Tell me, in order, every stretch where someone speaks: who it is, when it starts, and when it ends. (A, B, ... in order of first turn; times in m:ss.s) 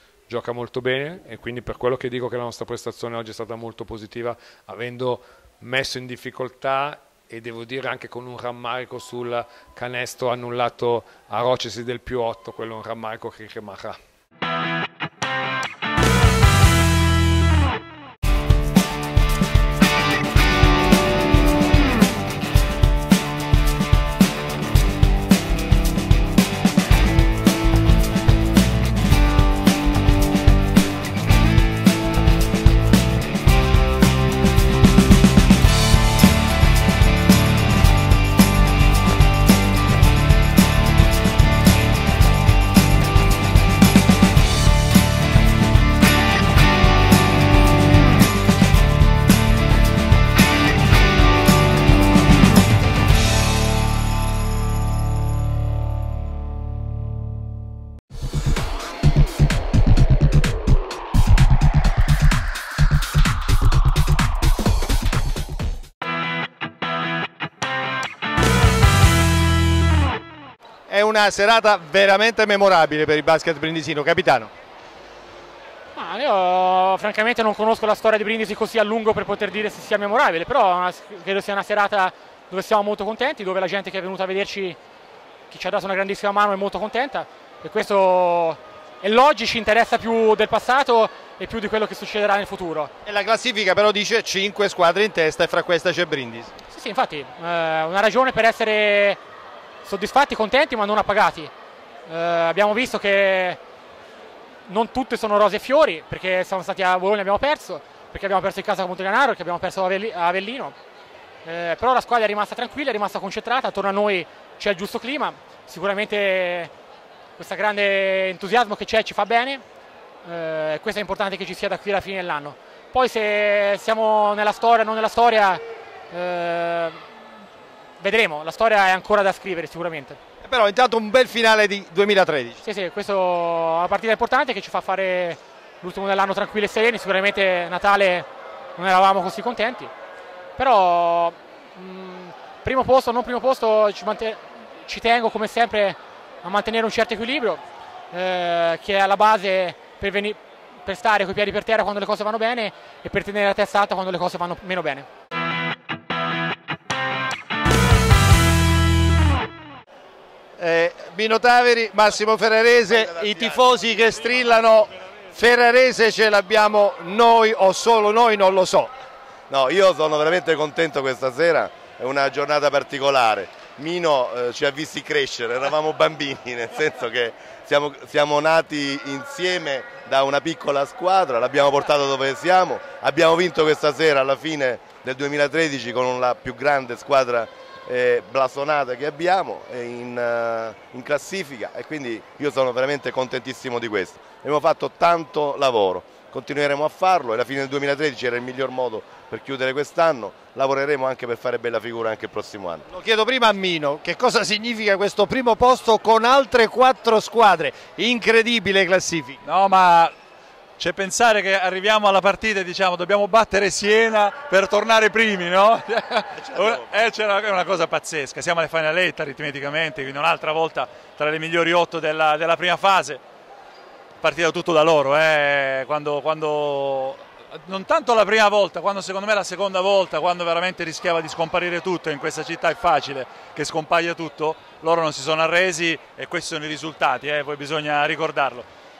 0:00.3-0:14.0 A
1:10.9-1:14.5 B
1:16.0-1:24.8 C
1:25.5-1:32.9 C
1:33.0-1:36.5 B
1:36.7-1:39.2 C
1:39.8-1:41.5 C
1:42.1-1:43.6 C
1:44.7-1:50.8 C
1:51.4-1:56.7 C
1:57.4-1:59.6 C
2:00.2-2:07.0 C
2:08.0-2:10.2 C
2:10.4-2:12.6 B
2:12.6-2:19.9 C
2:20.6-2:35.1 C
2:40.6-2:48.9 B
2:42.9-2:43.6 D
2:49.5-3:22.9 D
3:22.9-3:29.4 B
3:29.4-3:30.1 E
3:30.8-3:43.2 E
3:36.4-3:37.0 D
3:44.2-3:58.7 E